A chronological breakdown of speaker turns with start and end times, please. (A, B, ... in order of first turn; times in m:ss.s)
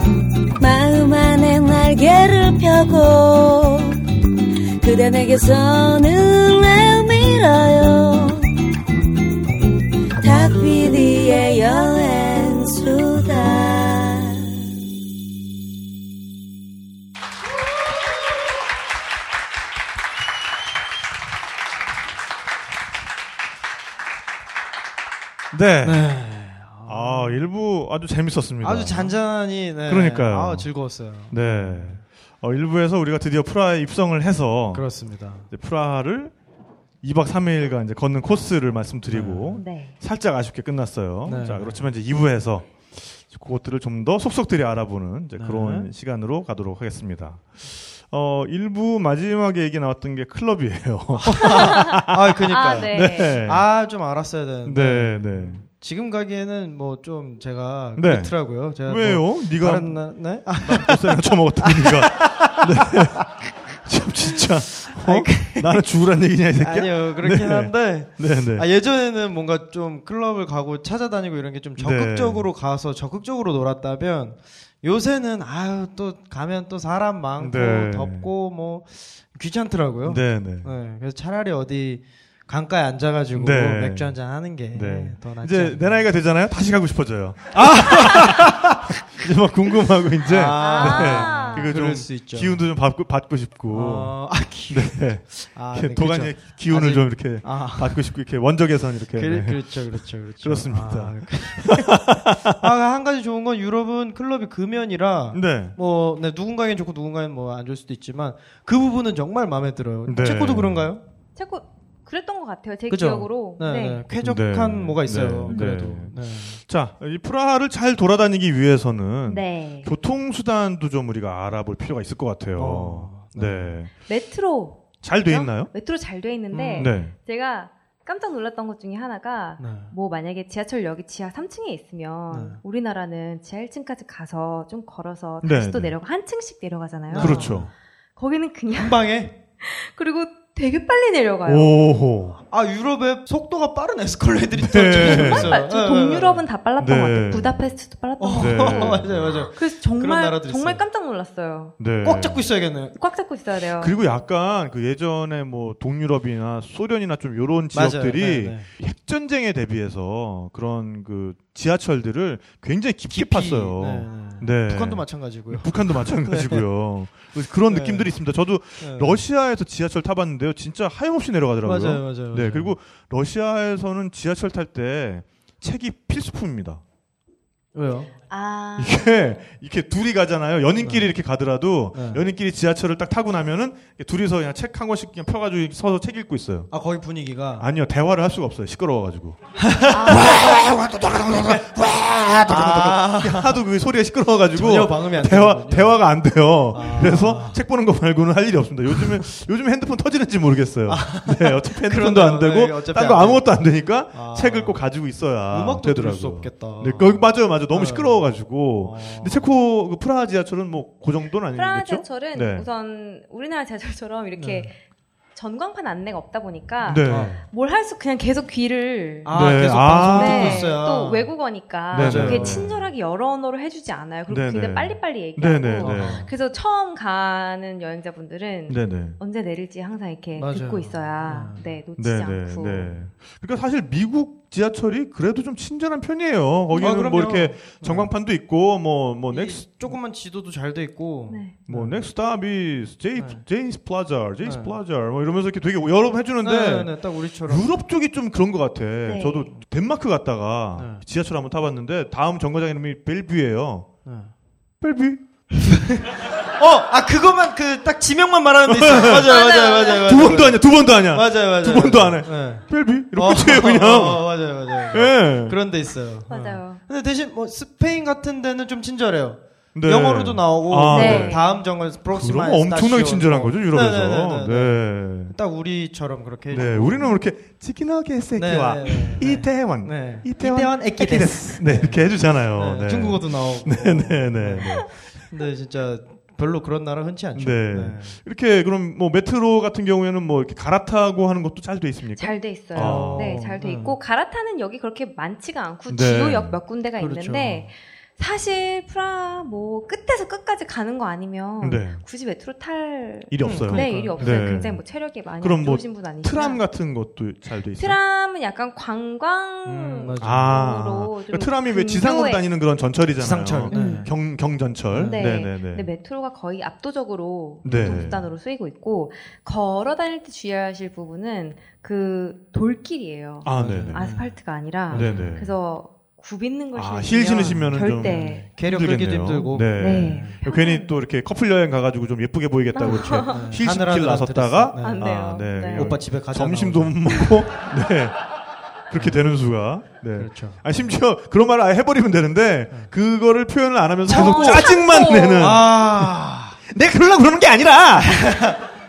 0:00.6-0:04.0 A
0:04.8-0:08.5 A
0:10.2-0:14.6 A
0:25.5-0:26.0 B
0:25.8-0:27.4 C
0:26.9-0:29.2 B
0:28.6-0:32.0 C
0:29.9-0:30.7 B
0:31.3-0:34.9 B
0:34.7-0:35.5 C
0:35.5-0:36.3 B
0:37.0-0:53.6 B
0:39.1-0:39.6 C
0:39.6-0:40.0 D
0:41.3-0:41.8 C
0:45.4-0:45.9 C
0:51.2-1:03.3 C
0:51.4-0:53.4 D
0:54.6-0:55.6 B
0:58.0-1:03.3 B
1:03.8-1:08.7 B
1:04.2-1:05.8 C
1:06.6-1:26.1 C
1:11.8-1:12.5 B
1:17.4-1:18.3 B
1:20.1-1:20.7 B
1:23.3-1:24.2 B
1:24.7-1:42.6 B
1:27.5-1:28.8 C
1:30.2-1:32.6 C
1:30.5-1:31.7 D
1:33.7-1:38.1 C
1:39.1-1:51.0 C
1:45.3-1:45.8 B
1:50.1-1:50.9 B
1:51.4-1:54.0 D
1:52.9-1:56.6 C
1:54.2-2:03.9 B
1:59.3-1:59.9 D
2:02.6-2:03.7 C
2:04.0-2:17.6 D
2:05.0-2:05.7 B
2:06.5-2:06.9 C
2:06.8-2:07.1 B
2:09.6-2:09.9 C
2:12.3-2:12.6 C
2:15.4-2:15.9 B
2:17.1-2:17.7 C
2:17.2-2:17.7 B
2:18.2-2:19.1 D
2:18.7-2:19.4 C
2:19.6-2:21.8 D
2:21.5-2:22.4 B
2:22.5-2:26.4 C
2:24.6-2:25.6 B
2:24.9-2:31.7 D
2:26.8-2:27.6 B
2:28.2-2:30.8 C
2:28.4-2:29.5 B
2:31.8-2:32.5 B
2:32.0-2:33.0 C
2:33.0-2:34.0 D
2:33.8-2:56.8 B
2:37.7-2:38.7 C
2:43.1-2:46.6 C
2:47.7-2:48.1 C
2:48.8-2:49.2 C
2:51.6-2:52.7 C
2:57.8-2:58.1 C
2:58.3-2:59.2 D
2:58.8-3:06.7 B
3:00.8-3:01.1 C
3:01.9-3:02.2 C
3:06.7-3:07.7 C
3:07.6-3:32.7 B
3:09.6-3:11.6 C
3:09.9-3:10.2 D
3:12.4-3:13.6 C
3:14.5-3:16.0 C
3:16.7-3:17.6 C
3:20.9-3:24.8 C
3:25.5-3:29.4 C
3:31.6-3:34.8 D
3:34.4-3:34.7 C
3:35.4-3:39.4 D
3:36.8-3:37.4 B
3:37.0-3:37.4 C
3:39.2-3:41.3 C
3:39.3-3:40.8 B
3:40.1-3:52.9 D
3:41.9-3:42.9 B
3:41.9-3:42.7 C
3:44.3-3:46.3 B
3:45.8-3:46.3 C
3:48.7-3:49.2 B
3:50.4-3:51.6 C
3:52.0-4:00.0 B
3:56.7-3:58.1 C
3:59.3-4:02.0 C
4:01.3-4:01.6 D
4:01.7-4:13.9 B
4:03.2-4:03.4 C
4:04.4-4:04.8 C
4:06.4-4:07.7 C
4:09.1-4:09.5 D
4:10.8-4:11.0 C
4:14.0-4:14.3 C
4:14.8-4:15.2 B
4:15.6-4:37.2 C
4:18.7-4:19.3 B
4:19.0-4:20.2 D
4:19.9-4:24.3 B
4:24.9-4:25.6 B
4:26.3-4:26.8 D
4:29.8-4:31.4 B
4:30.9-4:31.5 D
4:32.1-4:35.4 B
4:36.5-4:45.0 B
4:38.4-4:48.2 C
4:47.4-4:53.4 B
4:52.2-5:06.6 D
4:52.7-4:54.0 C
4:55.9-4:56.6 B
4:57.0-4:57.7 C
5:01.6-5:02.0 B
5:03.3-5:04.8 B
5:03.4-5:04.4 C
5:05.4-5:08.0 B
5:07.8-5:12.4 D
5:09.6-5:10.6 C
5:10.2-5:15.9 B
5:13.2-5:14.1 C
5:13.7-5:14.1 D
5:14.9-5:15.3 C
5:15.1-5:28.5 D
5:17.6-5:18.2 C
5:17.6-5:18.2 B
5:23.4-5:24.2 B
5:23.6-5:24.4 C
5:24.9-5:25.4 C
5:24.9-5:25.5 B
5:26.8-5:38.2 B
5:27.4-5:30.4 C
5:29.8-5:31.0 D
5:32.7-5:33.4 D
5:32.9-5:37.2 C
5:34.8-5:35.9 D
5:37.1-5:37.4 D
5:38.9-5:46.1 B
5:39.0-5:39.2 C
5:40.2-5:40.6 C
5:44.1-5:44.7 C
5:44.1-5:45.6 D
5:45.4-5:46.6 C
5:46.6-5:48.6 B
5:48.0-5:48.6 C